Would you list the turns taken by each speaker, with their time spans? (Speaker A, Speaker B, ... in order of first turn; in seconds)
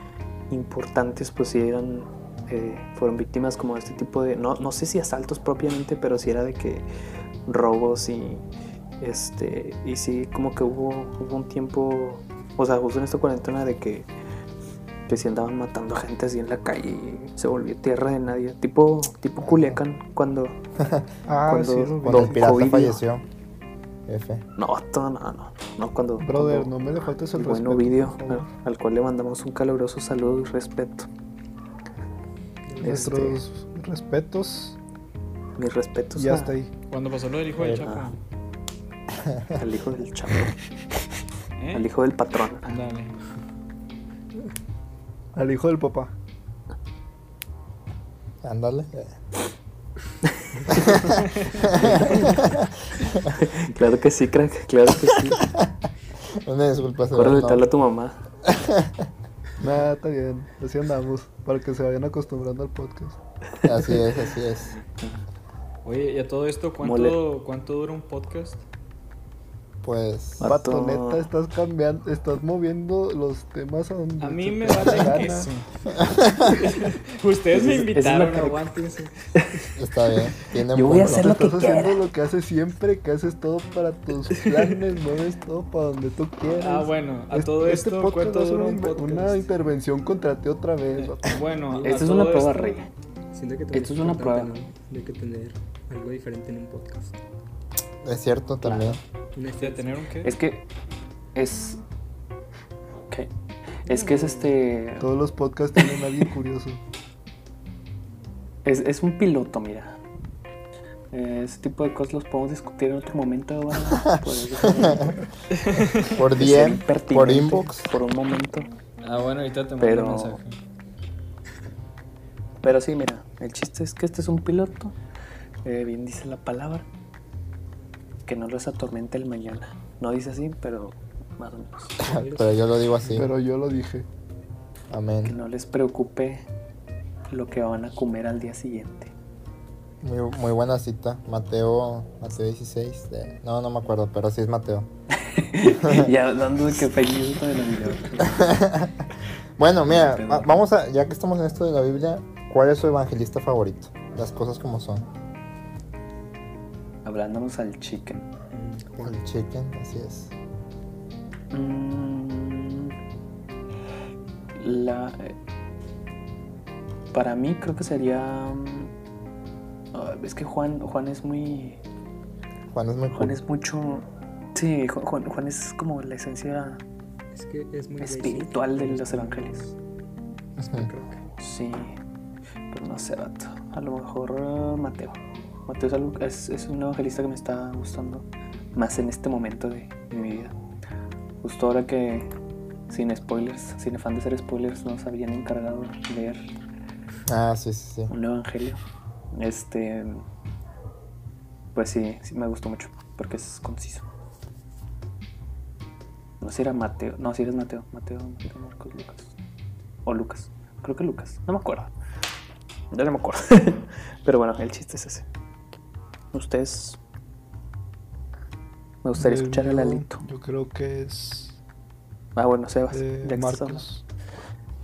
Speaker A: 0.5-6.9, 7.5-8.4, 9.0-14.1, 15.1-20.6, 21.5-23.0, 24.6-26.7, 27.3-31.1, 32.8-33.4, 35.6-36.6, 37.8-38.1, 39.6-40.6, 41.7-42.7, 50.5-50.9, 51.8-52.3, 53.4-55.4, 57.1-58.2, 66.8-67.2, 70.4-71.3, 77.5-78.6, 79.3-79.7, 80.7-82.0, 91.8-92.9, 93.7-94.6, 98.6-99.0, 100.2-100.7, 101.3-101.8, 103.8-105.1, 108.7-110.0, 111.1-115.2, 116.3-118.7, 119.8-120.4, 122.6-125.0, 125.6-126.9, 128.3-132.0, 135.2-136.5, 137.3-139.1, 145.2-148.7, 149.9-150.6, 157.1-158.3, 161.5-162.9, 164.6-165.3, 167.1-168.9, 169.9-171.8, 173.2-176.8, 178.0-179.7, 181.4-182.0, 182.7-190.6, 191.4-192.3, 192.9-196.5, 198.1-198.8, 199.3-200.2, 201.7-204.1, 206.4-209.3, 210.1-211.9, 212.9-215.2, 216.3-217.0, 219.0-220.2, 222.4-223.8
Speaker B: 19.4-19.8, 20.8-21.1, 22.0-23.2, 24.1-24.4, 37.6-37.9, 39.2-39.6, 48.4-49.2, 50.7-53.4, 56.3-57.6, 58.5-59.1, 63.6-64.7, 69.8-70.5, 76.0-76.5, 79.8-81.4, 98.0-99.0, 114.1-115.2, 116.0-117.9, 132.0-133.3, 134.9-135.3, 140.0-144.9, 145.8-146.1, 148.2-149.1, 149.6-155.1, 159.0-160.3, 172.7-173.4, 180.6-180.9, 197.3-198.1
Speaker C: 21.3-22.6, 26.2-28.5, 32.8-34.8, 36.1-36.7, 45.4-46.1, 59.6-63.2, 70.4-75.5, 81.0-91.4, 105.0-106.8, 133.1-134.1, 219.2-221.6, 222.9-224.0
Speaker D: 32.7-33.2, 91.7-92.0, 93.3-97.2, 99.3-100.0, 103.9-104.6, 132.1-132.6, 158.5-159.2, 177.3-179.8, 180.6-181.2
Speaker E: 36.9-38.2, 41.6-41.9, 42.6-43.2, 65.8-68.6, 74.2-75.7, 76.5-79.2, 86.5-89.5, 91.0-92.8, 99.6-100.3, 115.5-116.2, 119.0-120.6